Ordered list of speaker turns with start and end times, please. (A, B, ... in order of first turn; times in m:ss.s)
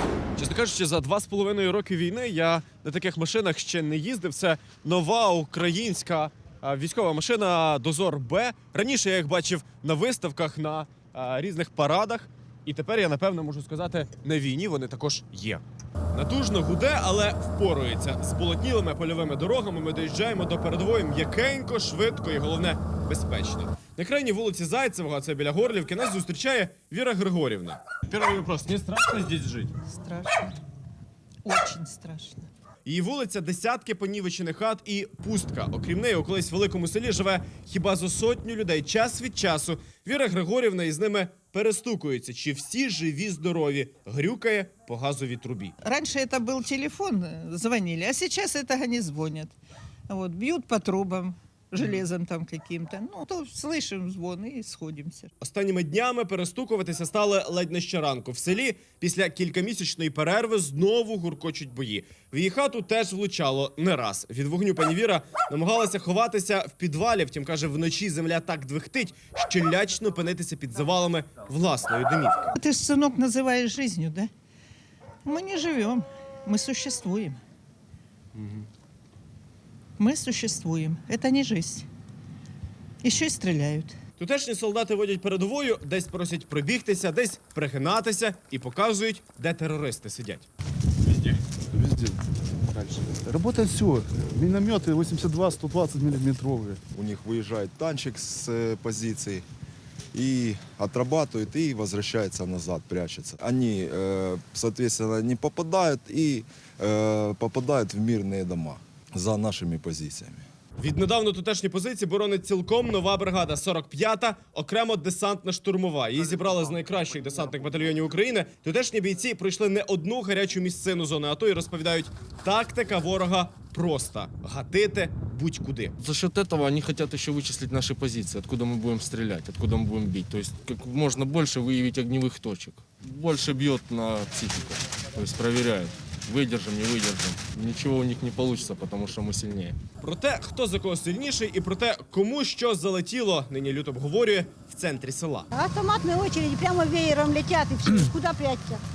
0:00.4-0:15.6 A
0:16.1-0:29.7 A
0:29.8-0:30.6 B
0:31.4-0:32.5 B
0:32.8-0:45.7 A
0:45.8-0:49.6 B
0:50.1-0:55.3 B
0:55.4-1:12.5 A
1:12.6-1:14.3 B
1:15.2-1:17.4 B
1:20.0-1:21.9 B
1:23.0-1:24.0 B
1:24.2-1:30.5 A
1:31.7-1:32.2 C
1:32.8-1:36.8 C
1:36.9-1:39.4 D
1:40.1-1:50.4 D
1:50.8-2:06.0 A
2:06.0-2:19.8 E
2:20.0-2:25.5 A
2:25.5-2:28.8 F